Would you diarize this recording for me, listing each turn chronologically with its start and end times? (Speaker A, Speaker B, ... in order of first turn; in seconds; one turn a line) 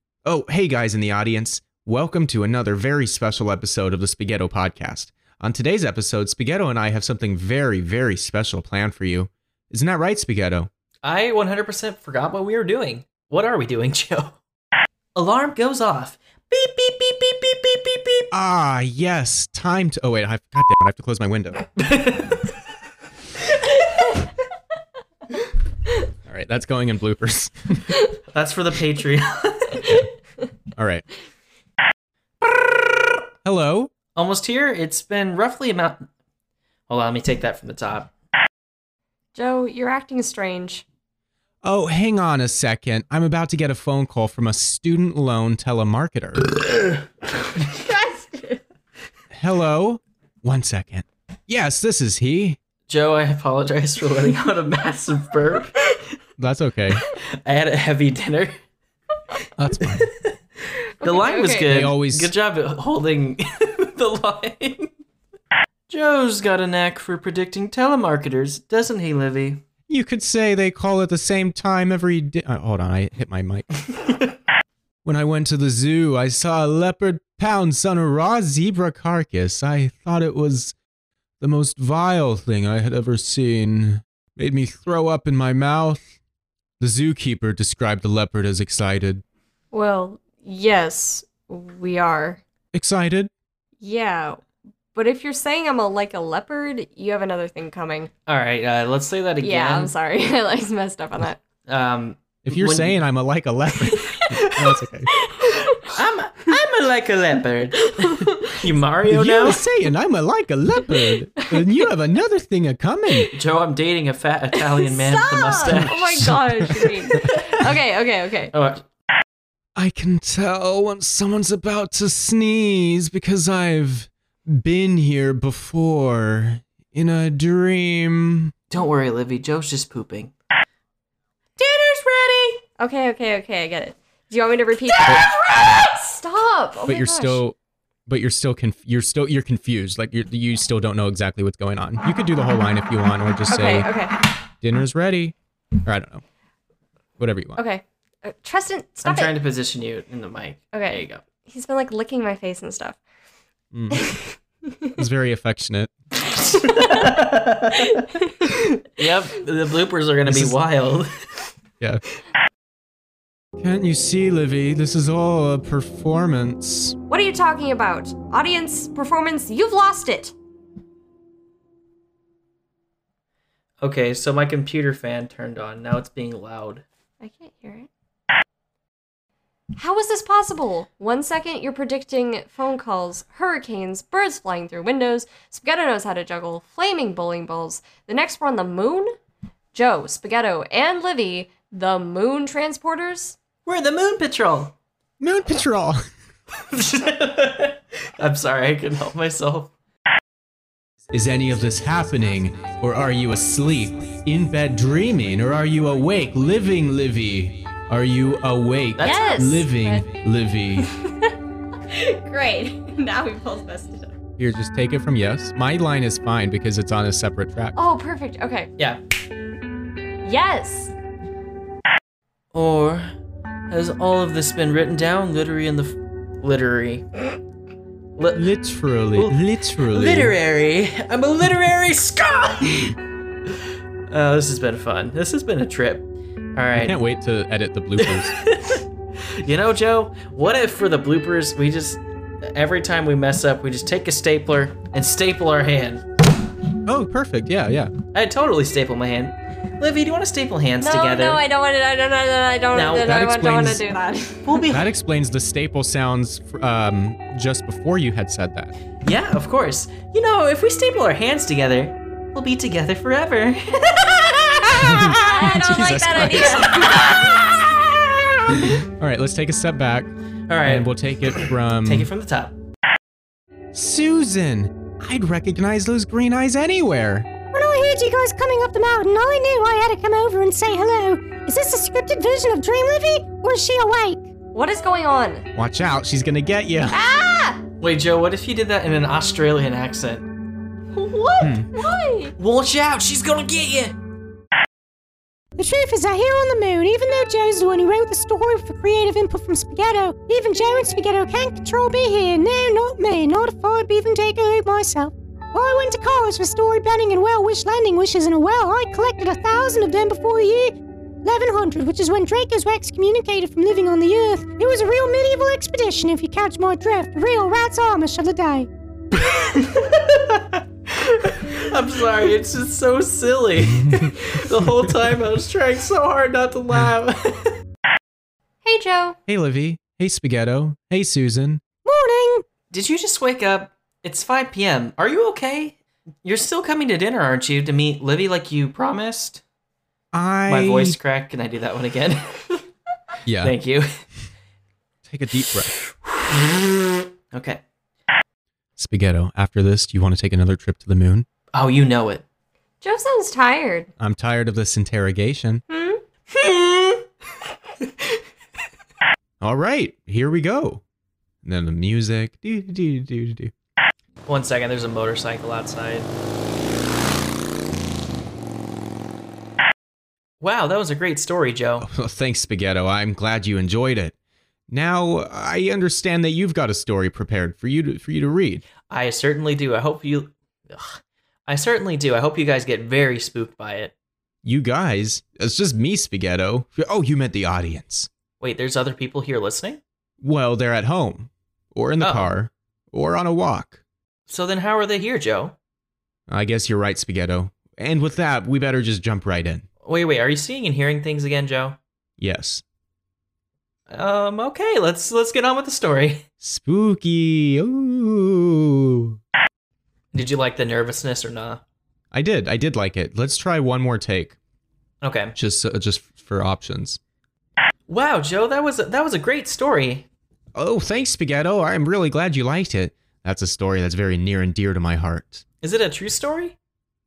Speaker A: 0.2-10.7
Speaker B: 11.0-14.4
Speaker B: 15.1-18.3
Speaker A: 18.3-21.6
Speaker B: 21.8-22.5
Speaker A: 26.2-28.0
Speaker B: 28.3-29.8
Speaker A: 30.7-31.1
Speaker A: 33.4-33.9
Speaker B: 34.1-36.0
Speaker B: 36.9-38.1
Speaker C: 39.3-40.8
Speaker A: 41.6-46.5
Speaker C: 47.6-48.6
Speaker A: 49.3-52.6
Speaker B: 52.9-56.0
Speaker A: 56.4-57.0
Speaker B: 57.0-58.5
Speaker A: 59.6-60.1
Speaker B: 59.8-60.4
Speaker C: 61.0-61.9
Speaker B: 61.0-64.9
Speaker A: 61.6-62.3
Speaker B: 65.9-69.6
Speaker A: 69.9-73.7
Speaker B: 73.9-74.3
Speaker A: 75.0-80.7
Speaker A: 81.4-86.0
Speaker A: 86.8-89.2
Speaker C: 89.7-92.4
Speaker A: 92.7-93.3
Speaker C: 93.8-94.4
Speaker C: 94.9-98.1
Speaker B: 98.3-99.9
Speaker C: 99.4-101.4
Speaker B: 101.7-103.0
Speaker A: 102.4-105.1
Speaker C: 103.8-104.5
Speaker B: 104.3-104.6
Speaker C: 105.1-105.9
Speaker B: 105.8-109.6
Speaker C: 107.8-108.5
Speaker A: 109.1-113.3
Speaker C: 110.9-111.6
Speaker B: 113.3-116.1
Speaker C: 114.9-118.5
Speaker A: 115.7-117.2
Speaker B: 118.5-118.8
Speaker A: 119.8-128.5
Speaker B: 128.7-130.3
Speaker B: 131.6-132.6
Speaker C: 132.8-137.4
Speaker B: 135.1-135.7
Speaker A: 136.8-137.6
Speaker A: 138.1-143.9
Speaker C: 143.5-144.2
Speaker A: 144.6-146.2
Speaker A: 147.2-147.6
Speaker C: 147.6-149.3
Speaker B: 149.0-151.2
Speaker C: 150.7-153.0
Speaker A: 153.7-154.1
Speaker C: 153.9-155.0
Speaker A: 154.9-155.9
Speaker C: 156.3-157.1
Speaker B: 156.8-157.9
Speaker C: 157.7-158.8
Speaker B: 159.0-161.1
Speaker A: 160.2-160.6
Speaker A: 163.6-166.9
Speaker C: 167.1-170.3
Speaker B: 173.8-176.8
Speaker C: 177.2-177.9
Speaker C: 179.8-189.1
Speaker C: 189.7-193.4
Speaker B: 193.6-194.7
Speaker A: 195.2-196.0
Speaker B: 196.7-199.7
Speaker A: 201.1-210.9
Speaker C: 209.0-210.1
Speaker C: 210.8-211.3
Speaker C: 211.9-214.2
Speaker A: 214.4-217.8
Speaker C: 217.7-218.7
Speaker C: 220.2-220.9
Speaker B: 222.5-223.1
Speaker B: 223.7-227.0
Speaker B: 228.2-228.5
Speaker A: 228.3-230.3
Speaker B: 229.1-233.0
Speaker B: 234.1-236.9
Speaker A: 236.7-238.3
Speaker B: 238.0-246.0
Speaker A: 246.8-247.9
Speaker B: 248.1-251.4
Speaker C: 250.8-254.6
Speaker B: 252.7-253.8
Speaker B: 254.4-254.9
Speaker A: 254.7-258.7
Speaker B: 259.0-264.8
Speaker A: 264.7-266.9
Speaker C: 264.8-268.0
Speaker A: 268.5-270.1
Speaker B: 270.5-272.5
Speaker A: 270.6-272.1
Speaker A: 273.7-277.3
Speaker D: 277.5-284.3
Speaker C: 284.5-285.4
Speaker A: 285.5-287.0
Speaker C: 286.9-287.6
Speaker B: 287.8-290.2
Speaker C: 290.9-292.3
Speaker A: 291.4-291.7
Speaker B: 292.4-293.9
Speaker D: 295.6-318.7
Speaker B: 319.2-327.6
Speaker C: 328.6-329.2
Speaker A: 329.3-331.6
Speaker D: 331.8-332.4
Speaker B: 332.7-339.4
Speaker A: 340.1-341.0
Speaker B: 340.5-342.6
Speaker A: 343.2-343.5
Speaker B: 343.4-343.9
Speaker A: 345.0-345.7
Speaker B: 346.0-347.6
Speaker A: 348.8-351.2
Speaker B: 351.5-352.2
Speaker C: 352.8-353.9
Speaker A: 354.0-355.6
Speaker C: 355.7-356.0
Speaker B: 356.3-357.1
Speaker A: 359.4-360.8
Speaker A: 361.4-363.5
Speaker B: 364.3-366.1
Speaker B: 370.4-371.9
Speaker A: 371.8-374.1
Speaker A: 374.7-378.6
Speaker B: 378.9-383.9
Speaker A: 384.4-388.1
Speaker B: 388.4-389.8
Speaker A: 390.2-393.8
Speaker B: 392.0-392.3
Speaker B: 394.3-395.5
Speaker A: 396.3-399.6
Speaker B: 399.8-401.8
Speaker A: 402.2-402.6
Speaker B: 403.9-406.2
Speaker A: 406.4-409.2
Speaker B: 410.1-411.6
Speaker A: 412.1-414.4
Speaker B: 415.0-415.3
Speaker A: 415.4-417.0
Speaker B: 417.9-420.1
Speaker A: 420.5-425.4
Speaker B: 425.6-426.6